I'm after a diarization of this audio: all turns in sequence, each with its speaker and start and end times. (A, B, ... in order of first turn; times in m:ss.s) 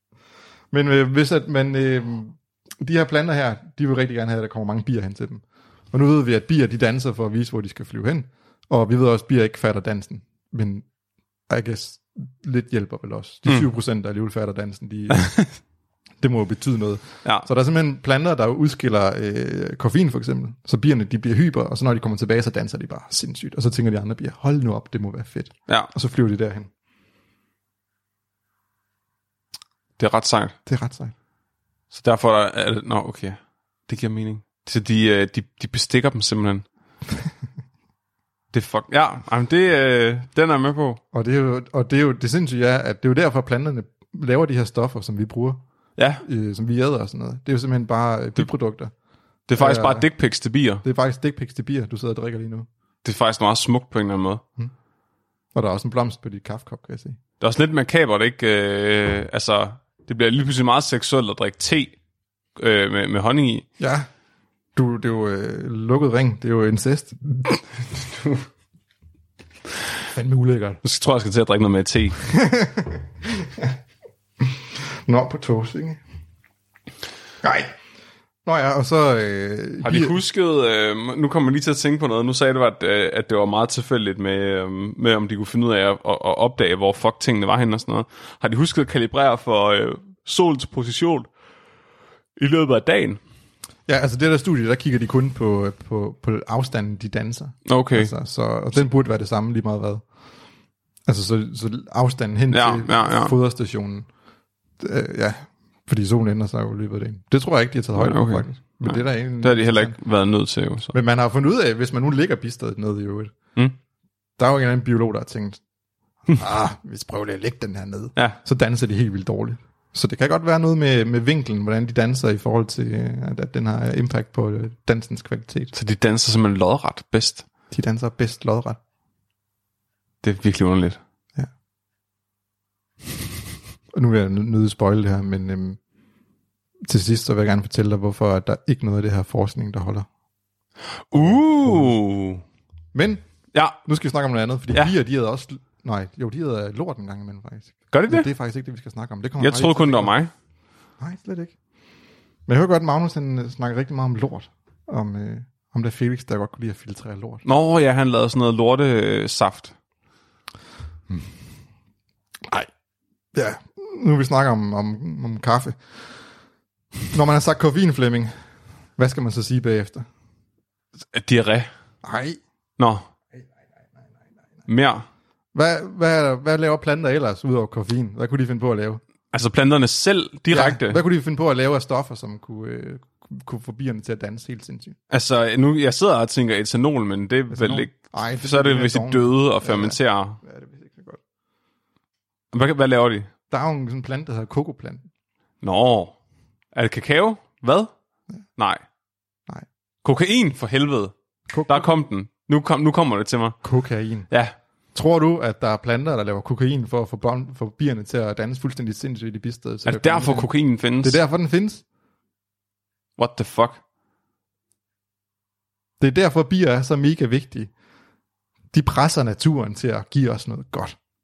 0:00.7-0:10.9 A
0:11.5-0:15.3 A
0:15.1-0:15.5 B
0:16.2-0:26.7 A
0:30.0-0:30.6 B
0:30.7-0:31.1 A
0:31.9-0:36.7 B
0:38.5-0:41.0 B
0:41.1-0:45.6 A
0:46.0-0:46.2 B
0:46.2-0:48.9 A
0:49.5-0:50.8 B
0:49.6-0:50.1 A
0:50.8-0:52.7 A
0:53.0-0:54.4 B
0:55.6-0:57.2 A
0:57.4-1:02.0 B
1:02.6-1:03.7 B
1:03.8-1:04.1 A
1:04.8-1:07.5 A
1:10.1-1:10.8 A
1:10.8-1:12.2 B
1:12.2-1:13.8 A
1:14.4-1:16.0 A
1:17.4-1:17.7 A
1:18.4-1:20.2 A
1:19.8-1:31.3 B
1:32.4-1:33.2 B
1:33.9-1:40.0 A
1:37.7-1:38.1 B
1:41.1-1:44.1 A
1:42.5-1:43.3 B
1:44.8-1:50.0 A
1:48.0-1:50.9 B
1:50.9-1:53.3 A
1:54.4-1:55.6 A
1:56.3-2:05.7 A
2:05.7-2:07.4 B
2:07.7-2:08.8 A
2:10.2-2:11.0 B
2:13.9-2:15.8 A
2:16.8-2:20.1 A
2:21.1-2:22.4 B
2:21.1-2:22.0 A
2:22.9-2:23.2 A
2:23.8-2:30.2 A
2:27.9-2:28.3 B
2:29.4-2:30.3 B
2:31.0-2:31.5 A
2:32.5-2:37.4 A
2:37.4-2:39.8 B
2:43.3-2:45.8 A
2:47.1-2:48.3 A
2:49.0-2:50.1 A
2:51.1-2:51.7 B
2:52.0-2:52.4 A
2:52.8-2:53.0 B
2:54.7-2:55.0 B
2:55.5-2:59.0 A
2:59.3-3:01.0 B
3:00.5-3:05.0 A
3:05.1-3:10.4 B
3:07.5-3:11.2 A
3:12.5-3:13.3 B
3:13.5-3:15.0 A
3:15.6-3:16.2 B
3:16.7-3:17.9 B
3:18.6-3:18.8 B
3:20.0-3:21.1 B
3:21.5-3:21.9 A
3:21.7-3:23.6 B
3:23.6-3:24.3 A
3:24.3-3:24.6 B
3:24.9-3:30.5 A
3:29.8-3:31.2 B
3:31.0-3:31.8 A
3:33.2-3:33.8 B
3:36.0-3:37.7 A
3:38.7-3:41.0 A